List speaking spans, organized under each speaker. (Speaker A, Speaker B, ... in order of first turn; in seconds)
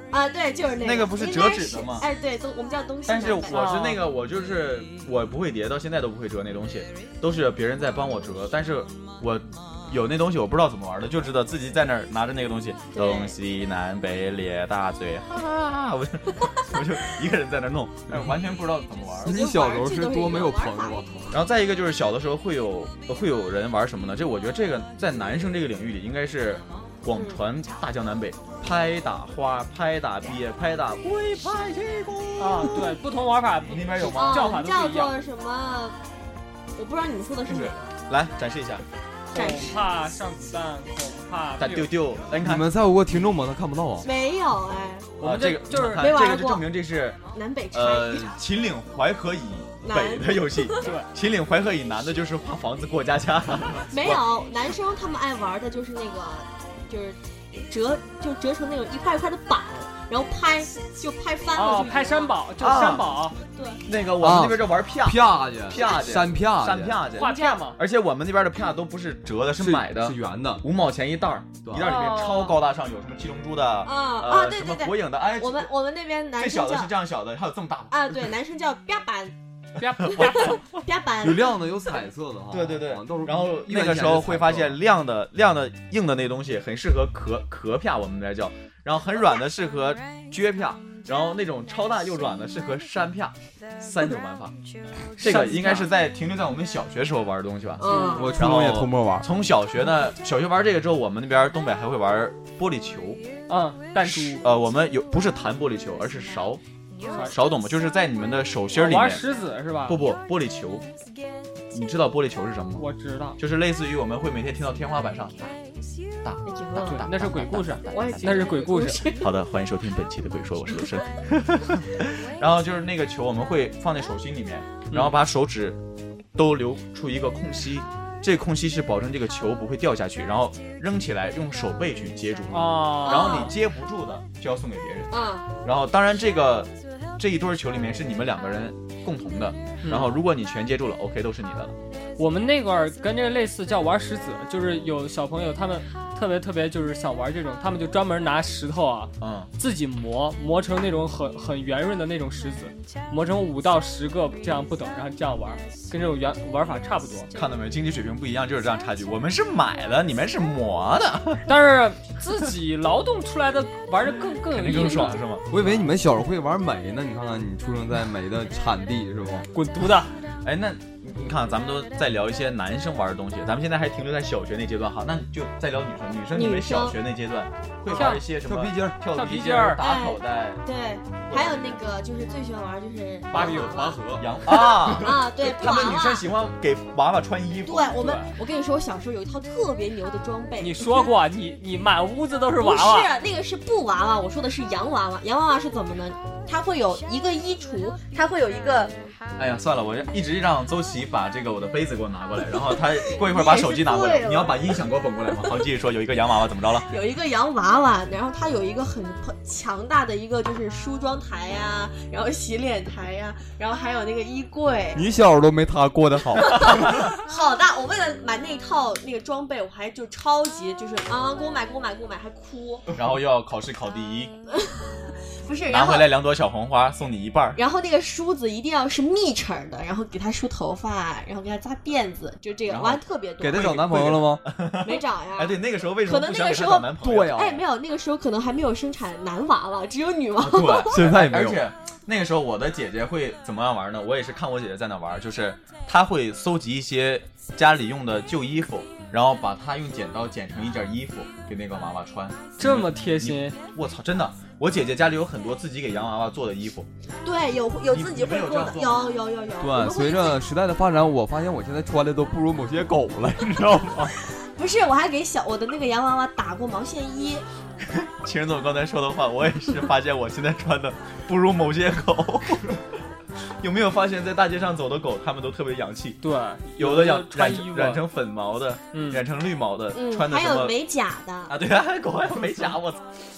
Speaker A: 0.1-3.6, 12.9-13.3, 19.2-21.4, 27.1-27.4, 34.1-36.0, 36.8-37.9, 39.3-39.8, 44.0-45.1, 46.0-46.7, 47.3-48.4, 49.8-50.9, 53.9-62.3, 63.5-63.8, 67.2-67.6, 73.8-76.9, 77.9-79.3, 80.1-81.5, 97.8-98.4, 116.4-117.0, 117.9-119.3, 133.0-133.5, 135.1-135.5, 176.3-177.0, 179.8-186.3, 187.6-191.1, 192.6-198.9, 203.0-204.7, 206.9-215.0, 216.5-222.9, 224.5-226.1, 227.6-233.8, 234.8-241.0, 257.2-260.4, 264.4-267.4, 279.9-281.5
Speaker B: 0.8-2.0, 3.1-19.4, 21.3-33.0, 33.6-34.5, 37.5-38.8, 41.6-42.7, 45.2-47.2, 47.7-54.2, 62.6-63.1, 63.9-75.7, 76.4-78.1, 80.1-80.6, 82.5-94.5, 95.2-103.2, 104.0-106.6, 107.3-109.2, 109.9-110.8, 111.7-112.8, 113.4-115.6, 116.2-118.4, 119.1-125.8, 126.3-135.1, 135.6-141.7, 149.2-149.5, 157.3-161.4, 164.5-165.4, 170.4-180.6, 181.3-181.8, 184.2-188.0, 199.4-206.9, 222.9-224.3, 225.7-227.6, 232.7-237.4, 240.4-256.9, 257.9-259.1, 267.9-272.8, 273.6-276.2, 276.8-280.7, 281.5-283.1
Speaker C: 3.5-4.0, 32.4-35.1, 39.3-41.9, 45.2-46.3, 50.8-51.1, 61.5-63.4, 67.1-67.8, 71.8-72.6, 79.8-80.6, 95.2-95.9, 97.8-98.3, 103.5-104.4, 107.1-107.4, 108.7-110.0, 112.8-113.4, 116.8-119.0, 132.5-133.5, 139.8-140.2, 142.2-157.3, 161.4-165.9, 169.5-170.1, 177.9-178.3, 179.1-179.8, 183.3-183.8, 188.0-188.3, 190.6-193.1, 252.6-253.6, 276.2-278.0, 278.9-279.2
Speaker D: 19.2-21.1, 42.4-44.1, 64.2-67.0, 69.5-70.6, 71.6-71.9, 81.2-84.8, 98.1-99.3, 165.5-169.5, 178.4-179.0, 183.3-184.4, 214.9-217.1, 233.4-234.4, 237.0-237.6, 240.9-241.7, 259.6-264.1